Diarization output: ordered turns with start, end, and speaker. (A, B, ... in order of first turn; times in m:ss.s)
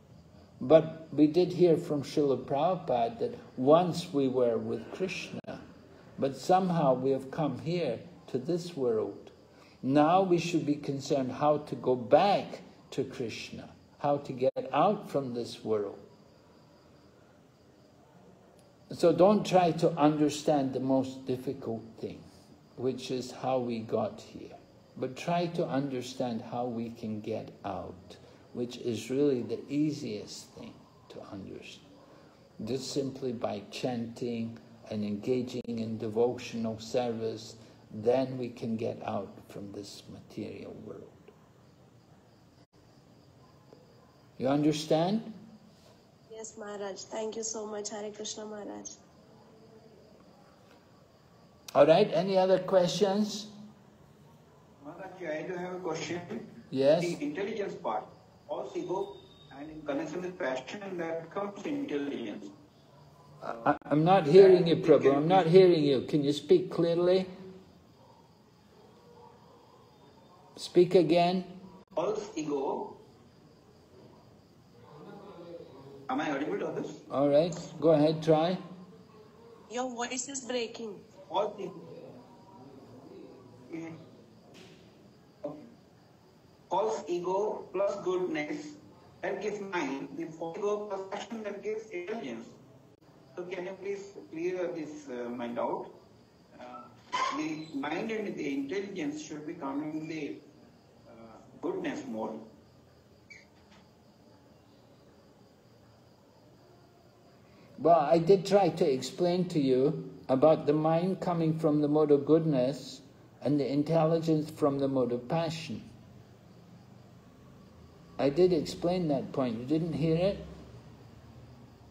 0:00.6-0:05.6 A
0:06.2-0:16.0 A
0:18.9-0:22.2 A
0:22.8-0:31.8 A
0:32.6-0:41.3 A
0:44.4-0:45.3 A
0:46.3-0:48.9 B
0:51.7-0:53.5 A
0:54.8-1:02.5 C
0:56.7-0:57.2 A
1:03.4-1:07.3 A
1:04.3-1:05.5 C
1:10.6-1:11.6 A
1:12.0-1:13.0 C
1:16.1-1:17.0 C
1:17.1-1:18.6 A
1:19.7-1:21.0 B
1:21.3-1:22.0 C
1:23.7-1:24.0 C
1:26.7-1:32.6 C
1:33.4-1:35.9 C
1:36.6-1:40.4 C
1:41.1-1:42.5 C
1:47.8-1:55.9 A
1:58.2-2:00.5 A